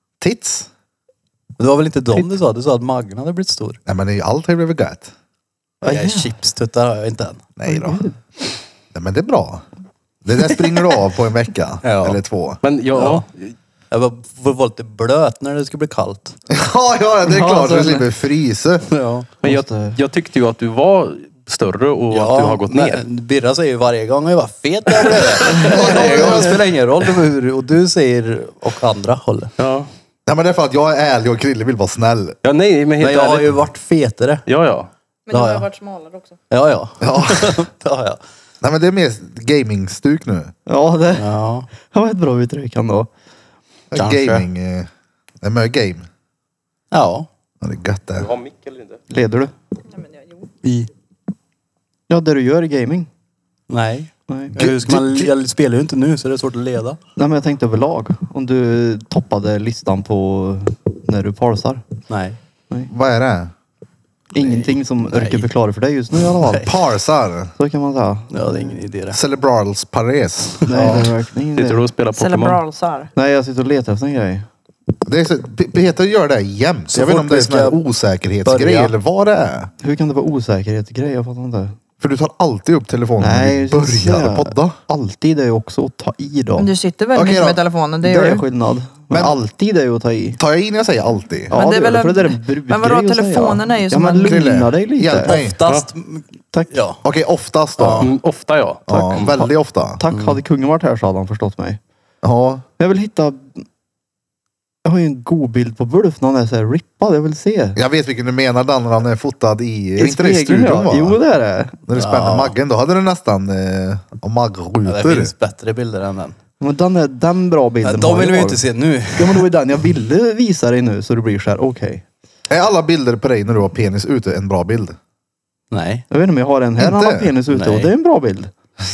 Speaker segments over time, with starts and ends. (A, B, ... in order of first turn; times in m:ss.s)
0:00.2-0:00.7 A
0:01.6-0:03.8 B
0:03.9-0:05.1 A
0:05.8-0:06.3 C
0:05.8-0:07.5 B
0:07.6-0:08.0 A
0:07.6-0:08.2 C
0:08.9-0:09.6 A
0:10.2-0:12.6 A
0:11.8-0:12.2 B
0:12.6-0:13.5 D
0:12.9-0:13.2 B
0:13.9-0:16.4 B
0:16.5-0:18.8 A
0:17.2-0:18.1 C
0:18.9-0:19.3 B
0:19.4-0:20.0 C
0:19.4-0:23.0 D
0:22.1-0:29.5 B
0:25.0-0:25.3 D
0:25.6-0:26.6 A
0:29.6-0:29.9 D
0:30.2-0:32.3 A
0:32.4-0:33.6 D
0:33.0-0:34.4 B
0:34.5-0:34.9 D
0:35.3-0:36.4 E
0:35.3-0:35.7 B
0:36.5-0:38.2 B
0:37.0-0:37.6 A
0:38.6-0:40.5 A
0:40.7-0:41.3 C
0:41.2-0:41.7 B
0:41.8-0:43.1 C
0:43.9-0:44.9 A
0:43.9-0:44.4 B
0:45.4-0:46.0 A
0:46.9-0:47.3 B
0:47.6-0:48.3 A
0:48.2-0:49.0 D
0:49.1-0:49.5 C
0:50.6-0:50.9 B
0:52.1-0:53.1 C
0:53.7-0:57.0 B
0:54.3-0:55.3 C
0:57.2-1:01.8 C
1:02.1-1:02.4 B
1:02.9-1:03.5 A
1:04.3-1:06.6 C
1:04.4-1:05.5 B
1:06.3-1:06.8 B
1:06.6-1:07.5 A
1:07.6-1:08.8 C
1:08.3-1:09.2 B
1:09.1-1:10.9 A
1:10.6-1:11.1 B
1:10.7-1:11.8 C
1:11.6-1:12.6 D
1:12.2-1:13.1 E
1:13.1-1:14.5 C
1:15.0-1:19.7 A
1:16.9-1:17.8 B
1:18.4-1:18.9 B
1:19.8-1:21.8 C
1:22.0-1:24.8 A
1:23.2-1:26.7 C
1:26.6-1:28.4 E
1:27.1-1:27.6 A
1:28.0-1:30.4 C
1:29.1-1:29.4 A
1:30.4-1:31.5 A
1:31.5-1:34.5 E
1:31.5-1:35.4 C
1:34.2-1:35.6 A
1:35.2-1:37.0 B
1:37.0-1:38.1 A
1:37.8-1:39.4 D
1:38.9-1:40.0 A
1:40.0-1:41.8 C
1:40.1-1:40.4 B
1:42.2-1:42.6 A
1:42.8-1:43.6 C
1:44.8-1:47.8 C
1:47.8-1:51.2 A
1:50.0-1:51.8 C
1:51.9-1:55.3 A
1:51.9-1:52.5 B
1:54.8-1:56.3 B
1:56.6-1:58.6 C
1:57.8-1:59.5 B
1:59.1-2:02.0 C
2:02.5-2:05.0 A
2:05.7-2:06.0 B
2:06.1-2:08.5 C
2:06.8-2:07.3 A
2:07.5-2:07.9 B